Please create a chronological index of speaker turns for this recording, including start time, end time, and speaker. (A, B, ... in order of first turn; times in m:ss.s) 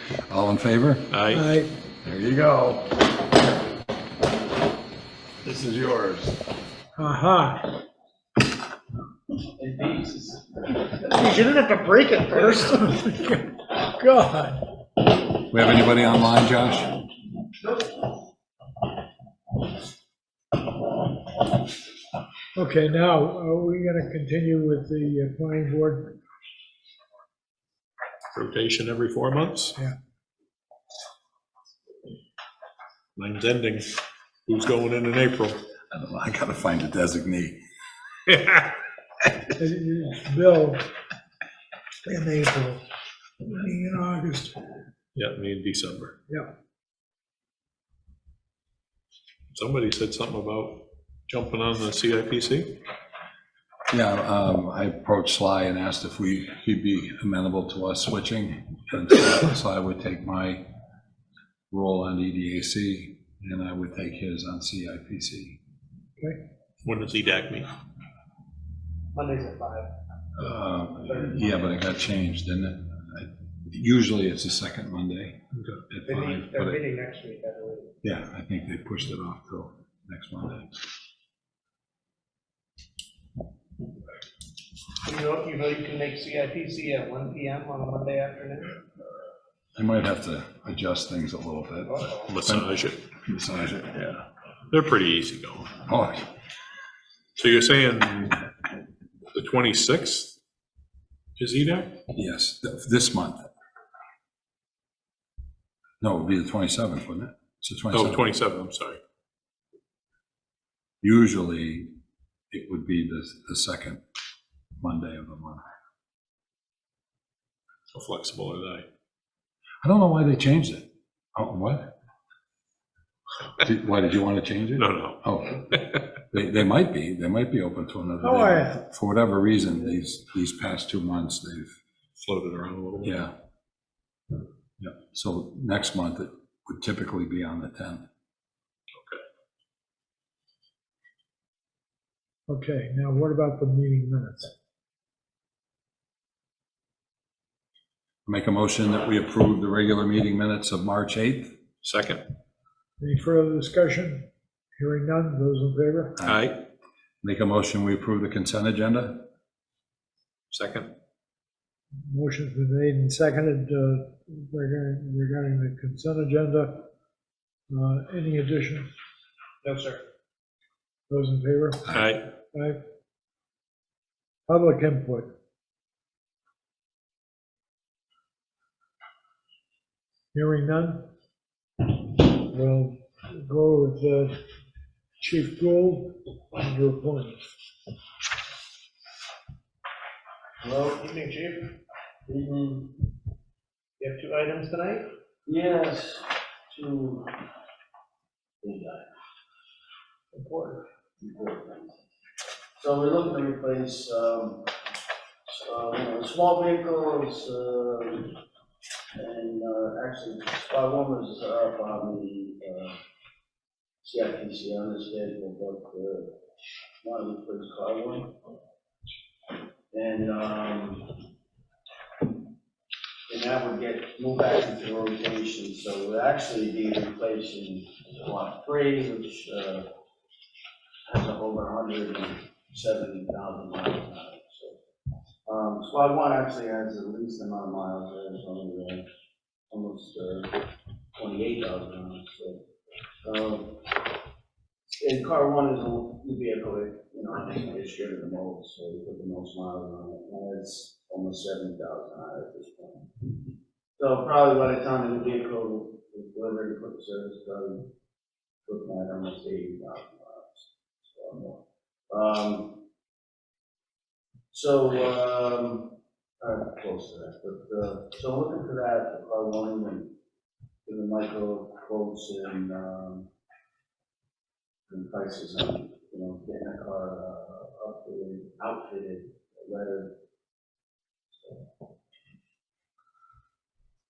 0:00.2-0:01.2 A
0:01.1-0:01.4 B
0:01.3-0:01.7 C
0:02.0-0:03.0 A
0:05.4-0:06.4 A
0:07.0-0:07.7 C
0:09.6-0:10.6 D
0:11.0-0:14.6 C
0:15.5-0:16.9 A
0:22.5-0:26.2 C
0:28.3-0:29.8 B
0:33.2-0:33.9 B
0:34.5-0:35.6 B
0:35.9-0:37.6 A
0:39.6-0:40.8 C
0:42.0-0:42.8 C
0:43.4-0:44.6 C
0:45.1-0:46.1 B
0:49.5-0:52.8 B
0:53.9-1:00.6 A
1:01.7-1:05.6 A
1:06.8-1:07.7 B
1:09.1-1:09.9 E
1:10.4-1:16.8 A
1:11.0-1:11.5 E
1:15.5-1:15.8 B
1:16.0-1:17.9 E
1:18.0-1:20.8 A
1:25.0-1:28.8 E
1:29.8-1:32.6 A
1:31.9-1:32.3 E
1:32.3-1:33.0 B
1:33.2-1:34.2 A
1:34.7-1:35.7 B
1:35.9-1:36.3 A
1:37.4-1:38.4 B
1:39.3-1:40.4 B
1:41.4-1:41.9 B
1:42.1-1:43.5 A
1:46.0-1:48.2 A
1:47.9-1:49.0 B
1:51.0-1:51.9 A
1:52.5-1:54.0 A
1:54.8-1:55.6 A
1:57.9-1:58.8 B
1:59.8-2:01.9 A
2:03.6-2:05.6 A
2:04.8-2:06.0 B
2:06.3-2:11.8 A
2:08.2-2:08.8 C
2:12.2-2:13.2 B
2:13.0-2:13.3 A
2:14.8-2:18.0 A
2:22.5-2:24.5 C
2:28.2-2:31.6 A
2:31.8-2:32.2 B
2:33.0-2:36.2 C
2:36.2-2:36.5 A
2:36.2-2:36.6 B
2:37.2-2:39.2 A
2:40.5-2:40.9 B
2:42.0-2:46.9 C
2:47.7-2:48.9 C
2:49.6-2:50.0 E
2:51.1-2:52.0 C
2:51.9-2:52.3 B
2:52.5-2:52.8 C
2:54.5-2:55.3 C
3:00.3-3:01.1 C
3:02.2-3:04.4 C
3:05.2-3:07.5 C
3:10.6-3:10.9 D
3:10.8-3:11.7 E
3:12.2-3:12.9 D
3:14.0-3:15.0 E
3:15.4-3:17.3 D
3:18.6-3:19.1 D
3:20.3-3:20.8 E
3:21.2-3:21.9 D
3:22.8-3:24.7 D
3:25.5-3:28.4 D
3:29.2-3:32.9 D
3:34.0-3:36.3 D
3:37.0-3:38.4 D
3:39.9-3:41.2 D
3:43.3-3:49.9 D
3:51.0-3:54.8 D
3:55.4-3:59.0 D
3:59.7-4:00.5 D
4:01.2-4:02.6 D
4:03.2-4:03.8 D
4:04.9-4:13.1 D
4:14.0-4:17.9 D
4:18.6-4:22.8 D
4:24.5-4:30.1 D
4:30.8-4:33.3 D
4:34.9-4:40.1 D
4:41.4-4:41.7 D